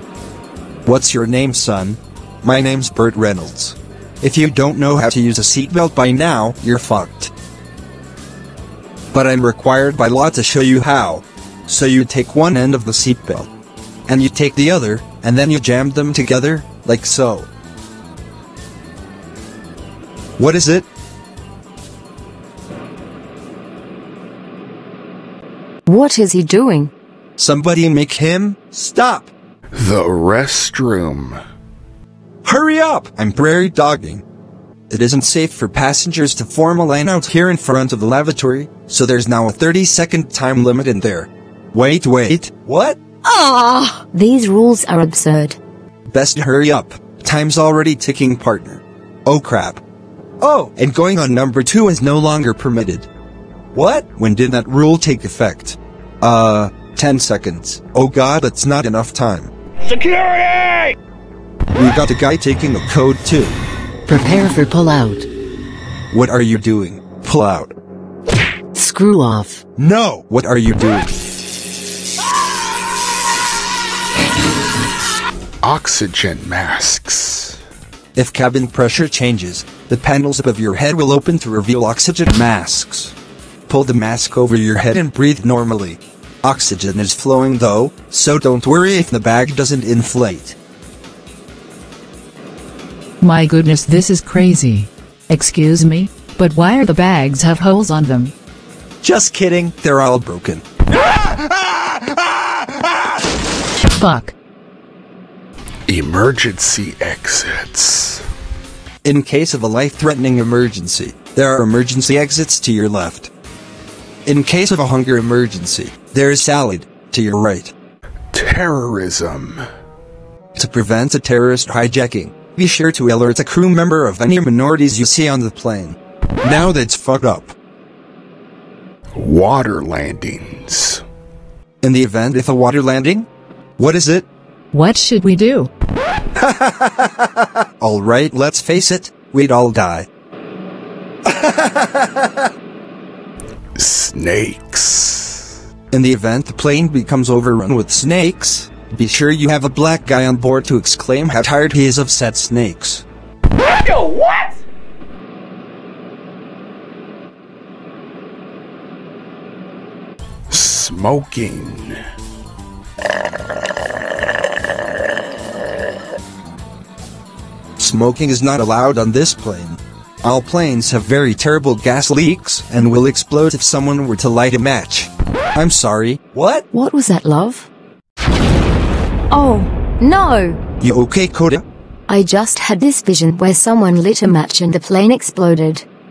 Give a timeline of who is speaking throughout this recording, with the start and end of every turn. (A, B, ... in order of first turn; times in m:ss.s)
0:00.9-0:07.3 A
0:09.1-0:13.5 A
0:14.1-0:17.5 A
0:20.4-0:20.9 A
0:25.9-0:26.9 B
0:27.4-0:29.3 A
0:29.8-0:31.4 C
0:32.4-0:34.2 A
0:34.9-0:43.0 A
0:43.2-0:45.6 B
0:46.1-0:49.8 A
0:50.4-0:53.1 A
0:53.7-0:59.5 A
1:01.7-1:03.6 A
1:04.1-1:05.3 D
1:06.1-1:07.7 A
1:08.7-1:09.6 D
1:09.8-1:11.1 A
1:15.6-1:17.6 C
1:18.2-1:23.1 A
1:23.7-1:30.6 A
1:33.2-1:38.3 E
1:39.0-1:40.6 A
1:43.9-1:44.3 E
1:45.9-1:48.2 C
1:49.0-1:53.3 A
1:54.2-1:57.7 A
1:58.3-1:59.6 C
2:00.6-2:07.5 A
2:09.1-2:11.0 C
2:11.8-2:13.3 A
2:13.8-2:14.2 A
2:14.7-2:15.7 E
2:16.4-2:16.9 A
2:17.8-2:20.0 A
2:21.4-2:21.9 A
2:23.8-2:25.5 C
2:25.9-2:33.0 A
2:40.5-2:42.0 C
2:47.8-2:56.6 A
2:56.7-2:57.7 B
2:59.3-3:00.6 B
3:00.8-3:01.6 A
3:02.1-3:05.8 B